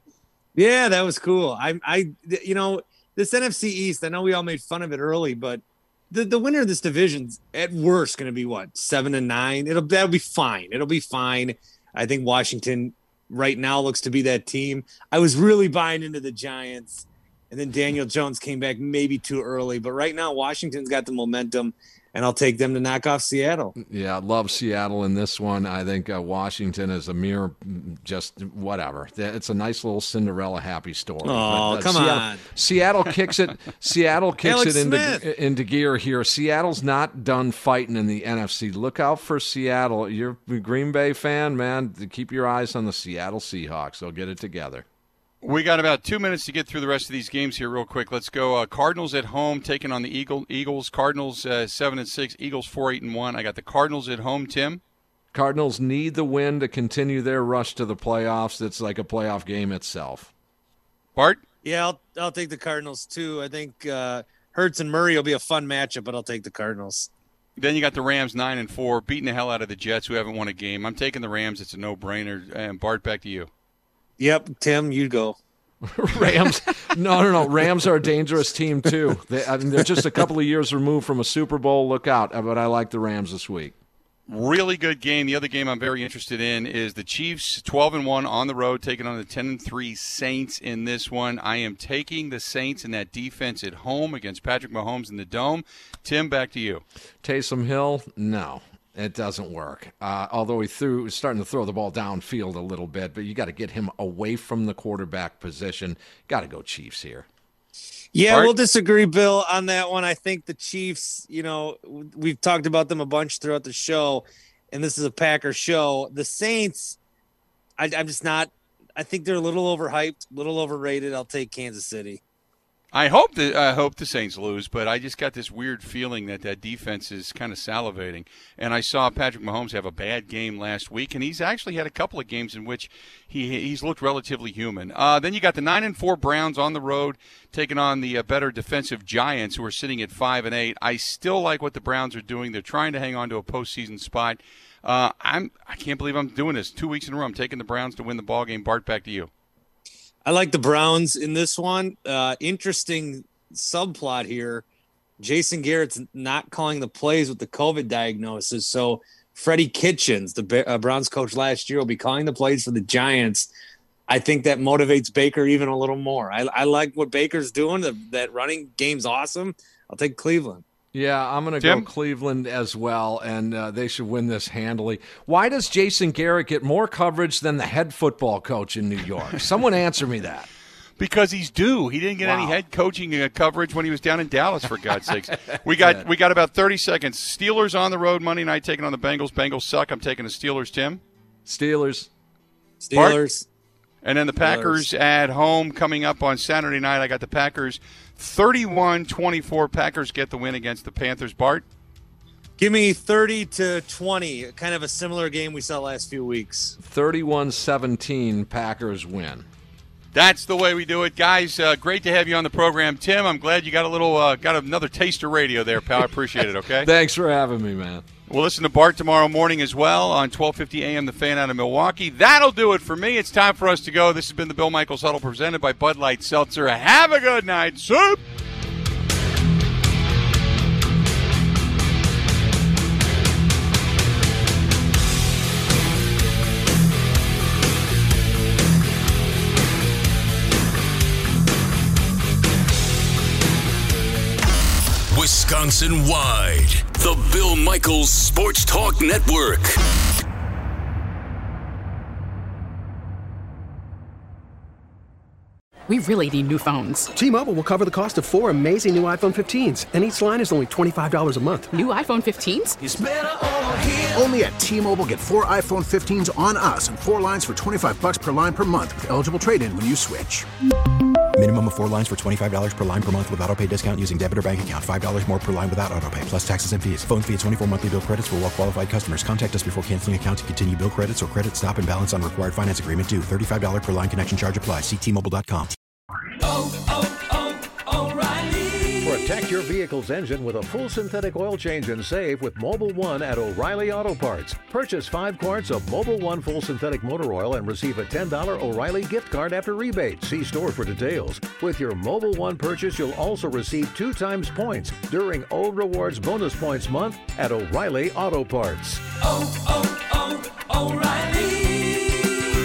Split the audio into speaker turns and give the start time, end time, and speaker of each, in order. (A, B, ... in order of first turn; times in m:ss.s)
0:00.6-0:23.7 A
0:23.8-0:44.8 B
0:31.2-0:32.4 A
0:34.4-0:35.2 A
0:45.4-0:54.8 C
0:55.3-1:00.3 B
1:01.2-1:01.4 C
1:01.6-1:07.1 A
1:07.6-1:13.5 C
1:14.2-1:15.4 A
1:15.8-1:23.8 B
1:24.3-1:36.8 C
1:37.2-1:47.3 B
1:48.1-1:57.0 A
1:57.8-2:02.2 A
2:02.9-2:29.3 C
2:30.2-2:34.6 A
2:35.2-2:43.5 A
2:44.1-2:50.6 A
2:50.9-3:00.5 B
2:51.6-2:51.9 C
3:01.0-3:11.0 C
3:02.2-3:02.6 B
3:05.5-3:06.0 B
3:11.4-3:12.1 B
3:12.8-3:13.4 A
3:12.9-3:13.2 C
3:14.0-3:21.6 C
3:14.4-3:14.9 A
3:22.6-3:26.8 A
3:26.8-3:29.5 B
3:30.1-3:36.9 C
3:36.8-3:38.0 B
3:38.3-3:48.2 C
4:05.1-4:09.8 D
4:15.9-4:17.1 E
4:17.1-4:21.7 F
4:21.7-4:22.8 E
4:22.8-4:30.5 G
4:23.6-4:24.0 F
4:31.3-4:45.7 H
4:49.0-5:09.0 I